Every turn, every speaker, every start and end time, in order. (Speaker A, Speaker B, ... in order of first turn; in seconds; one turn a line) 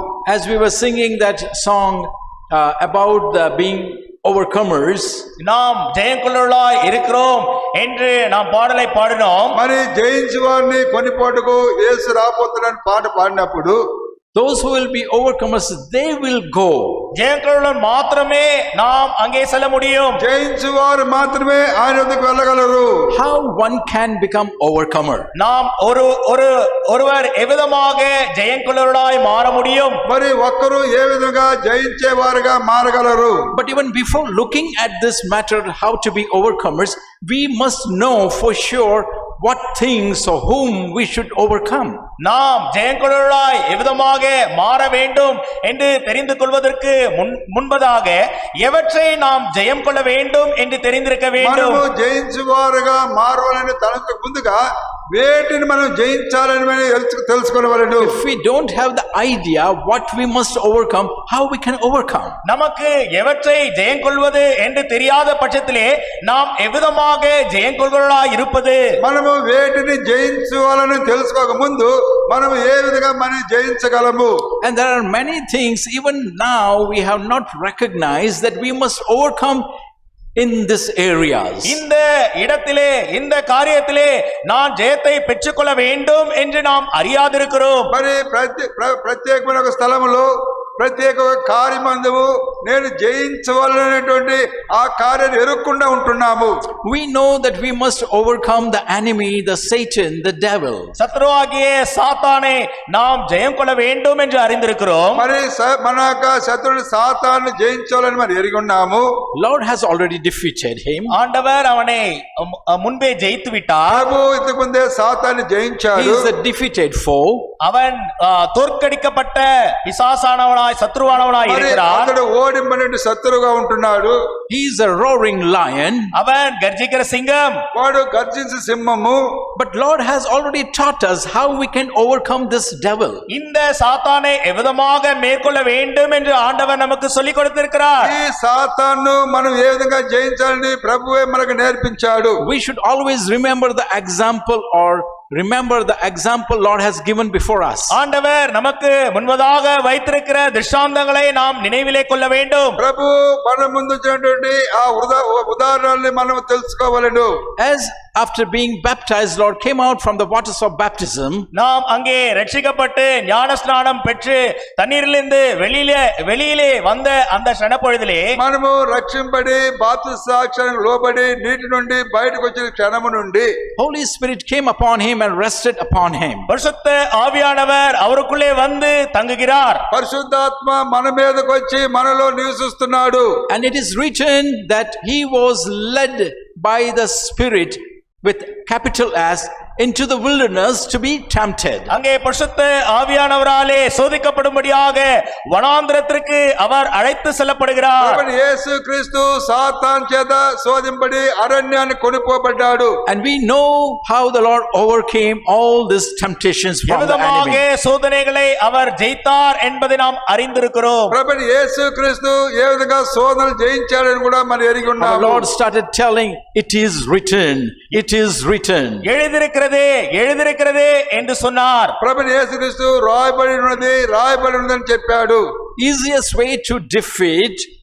Speaker A: 0.3-5.2
Speaker B: 5.4-9.6
Speaker C: 9.5-13.8
Speaker A: 14.3-17.1
Speaker B: 17.1-20.2
Speaker C: 20.2-22.9
Speaker A: 23.1-25.3
Speaker B: 25.3-30.0
Speaker C: 30.1-33.5
Speaker A: 33.5-42.0
Speaker B: 42.2-51.8
Speaker C: 51.4-54.6
Speaker C: 55.1-58.1
Speaker A: 58.0-62.4
Speaker B: 62.5-68.8
Speaker C: 69.0-74.3
Speaker A: 74.6-79.7
Speaker A: 80.4-81.8
Speaker B: 81.6-87.9
Speaker C: 87.9-96.5
Speaker A: 96.8-100.9
Speaker B: 101.0-105.2
Speaker C: 105.2-109.1
Speaker A: 109.3-111.1
Speaker B: 111.1-114.0
Speaker C: 113.9-116.3
Speaker A: 116.0-117.5
Speaker B: 117.6-122.1
Speaker C: 121.4-124.2
Speaker A: 124.5-126.1
Speaker B: 126.1-127.6
Speaker C: 127.7-129.2
Speaker A: 129.6-133.3
Speaker B: 133.3-138.1
Speaker C: 138.0-142.4
Speaker A: 142.4-147.9
Speaker B: 147.9-152.8
Speaker C: 152.8-157.3
Speaker A: 157.6-161.5
Speaker B: 161.5-168.3
Speaker C: 168.4-173.5
Speaker A: 173.8-176.5
Speaker B: 176.5-179.8
Speaker C: 179.9-183.3
Speaker A: 183.5-191.9
Speaker B: 191.9-198.2
Speaker C: 198.0-202.9
Speaker A: 203.1-207.6
Speaker B: 206.9-211.1
Speaker C: 211.1-215.5
Speaker A: 215.0-219.1
Speaker B: 219.0-221.9
Speaker C: 222.0-225.4
Speaker A: 225.8-227.7